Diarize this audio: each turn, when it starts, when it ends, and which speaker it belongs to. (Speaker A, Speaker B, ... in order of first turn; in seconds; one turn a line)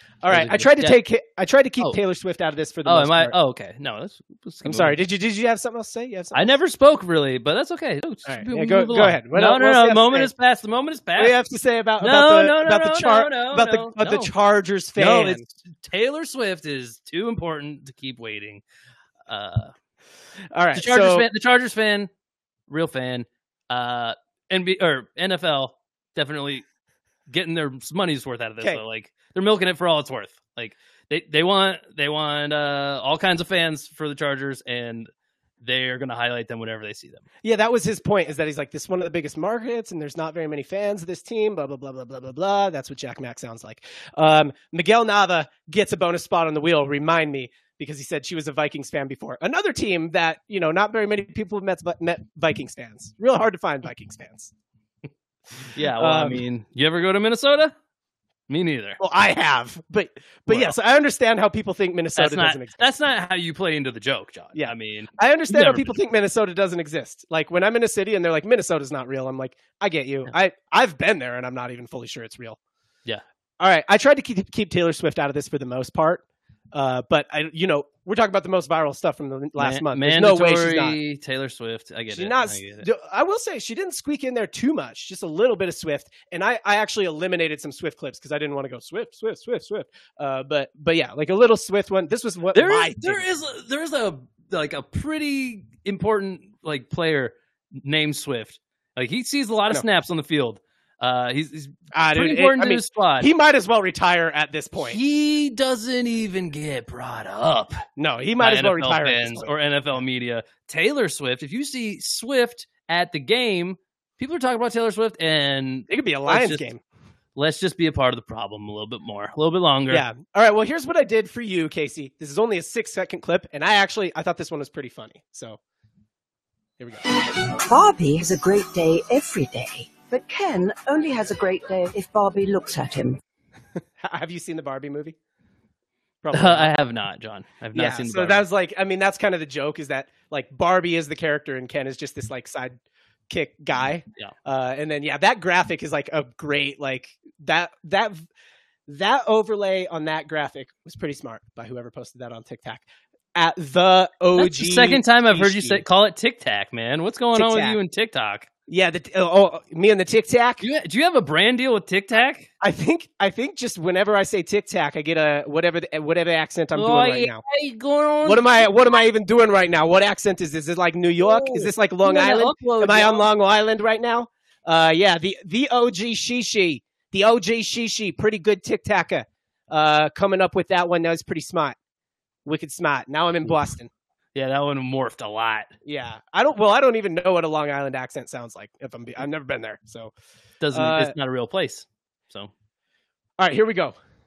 Speaker A: 0.2-3.4
Speaker B: 0.3-1.0
Speaker B: 2.9-5.0
Speaker A: 4.7-6.5
Speaker B: 6.3-11.4
Speaker A: 8.3-10.3
Speaker A: 11.2-15.4
Speaker B: 12.0-14.3
Speaker B: 15.0-18.6
Speaker B: 19.3-19.7
Speaker A: 20.5-21.3
Speaker B: 20.7-22.1
Speaker B: 22.7-26.6
Speaker B: 27.3-35.1
Speaker B: 35.6-37.2
Speaker A: 37.4-54.5
Speaker B: 55.7-57.7
Speaker A: 56.0-56.4
Speaker B: 58.5-59.0
Speaker A: 59.0-62.9
Speaker B: 60.5-60.8
Speaker B: 62.2-66.0
Speaker A: 64.6-72.6
Speaker A: 73.6-81.0
Speaker B: 79.6-82.9
Speaker A: 82.1-93.2
Speaker B: 92.5-103.3
Speaker A: 101.9-105.0
Speaker B: 104.8-107.8
Speaker A: 108.0-110.0
Speaker B: 108.4-116.7
Speaker A: 115.9-116.8
Speaker B: 117.4-120.0
Speaker A: 119.9-125.6
Speaker A: 126.8-127.0
Speaker C: 127.6-133.2
Speaker A: 134.0-135.2
Speaker A: 136.2-136.7
Speaker B: 136.3-138.4
Speaker A: 137.7-142.8
Speaker A: 143.3-148.3
Speaker A: 148.9-155.8
Speaker B: 154.4-158.5
Speaker A: 157.3-157.8
Speaker A: 158.7-160.7
Speaker B: 160.6-162.5
Speaker A: 162.6-167.4
Speaker B: 166.8-169.1
Speaker A: 168.2-181.8
Speaker B: 171.2-173.3
Speaker A: 182.5-183.9
Speaker B: 184.3-185.7
Speaker A: 185.8-190.1
Speaker B: 190.6-192.5
Speaker A: 190.7-191.1
Speaker A: 193.4-194.0